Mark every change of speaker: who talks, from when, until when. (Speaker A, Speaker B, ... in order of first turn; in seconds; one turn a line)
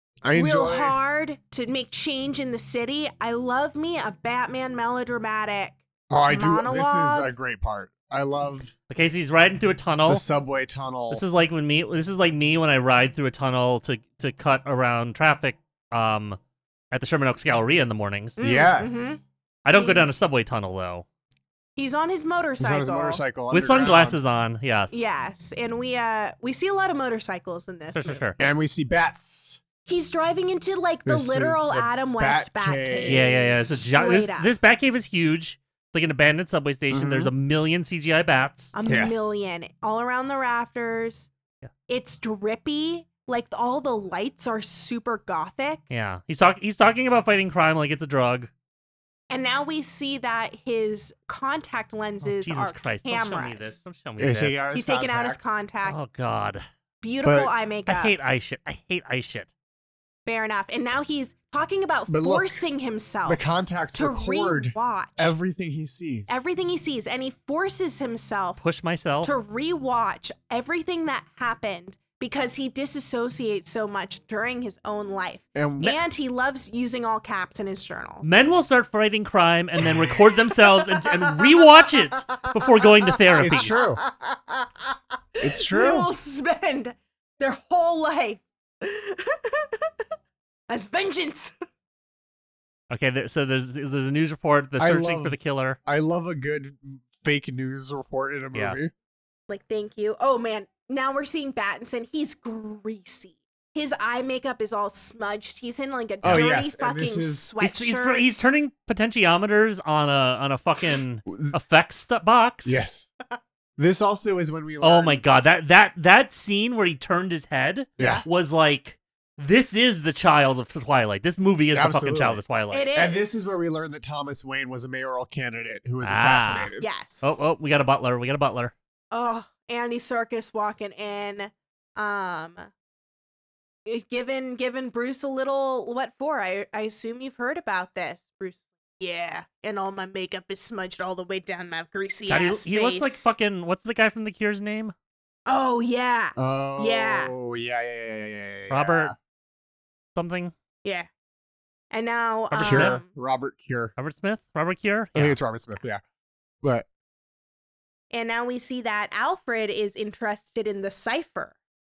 Speaker A: 0.2-1.0
Speaker B: 0.3-7.3
Speaker A: 6.1-8.8
Speaker C: 8.9-10.3
Speaker A: 10.1-11.2
Speaker C: 11.1-16.4
Speaker C: 16.9-18.4
Speaker B: 18.4-19.2
Speaker A: 18.4-19.2
Speaker C: 19.6-21.1
Speaker B: 19.7-20.1
Speaker B: 21.8-23.2
Speaker A: 22.6-24.2
Speaker C: 23.5-25.0
Speaker B: 24.9-28.3
Speaker C: 27.9-28.4
Speaker A: 28.4-29.6
Speaker B: 29.9-34.5
Speaker A: 31.1-33.3
Speaker C: 33.1-38.7
Speaker A: 36.9-37.3
Speaker B: 38.7-41.3
Speaker A: 38.9-39.4
Speaker B: 41.9-45.8
Speaker C: 45.9-48.5
Speaker B: 49.3-53.8
Speaker C: 52.2-54.7
Speaker A: 54.2-55.5
Speaker B: 54.7-56.0
Speaker C: 55.8-56.6
Speaker B: 57.0-58.1
Speaker A: 57.2-57.5
Speaker C: 57.9-59.5
Speaker B: 60.2-63.4
Speaker A: 62.1-62.6
Speaker A: 63.3-66.4
Speaker B: 63.9-65.3
Speaker B: 66.3-68.6
Speaker C: 68.6-69.3
Speaker B: 69.2-78.4
Speaker A: 75.5-76.0
Speaker C: 78.2-83.7
Speaker B: 80.5-89.9
Speaker A: 83.4-84.0
Speaker A: 85.4-86.1
Speaker B: 90.7-91.5
Speaker C: 92.9-95.8
Speaker A: 94.8-98.9
Speaker C: 98.5-98.8
Speaker B: 99.5-108.5
Speaker A: 106.2-107.5
Speaker C: 107.6-112.8
Speaker A: 111.3-111.6
Speaker A: 112.7-113.1
Speaker A: 113.8-115.2
Speaker C: 114.8-122.9
Speaker A: 118.0-118.2
Speaker A: 121.7-122.4
Speaker B: 122.7-123.3
Speaker A: 123.0-126.9
Speaker C: 126.0-128.7
Speaker B: 126.8-127.4
Speaker B: 129.1-132.7
Speaker B: 133.9-143.3
Speaker C: 142.3-144.9
Speaker B: 145.5-147.3
Speaker A: 146.4-149.2
Speaker C: 148.7-149.1
Speaker C: 150.2-150.5
Speaker B: 150.8-151.1
Speaker B: 151.9-153.1
Speaker C: 152.5-153.0
Speaker A: 152.6-153.9
Speaker C: 154.0-155.4
Speaker A: 155.2-156.0
Speaker B: 158.1-161.6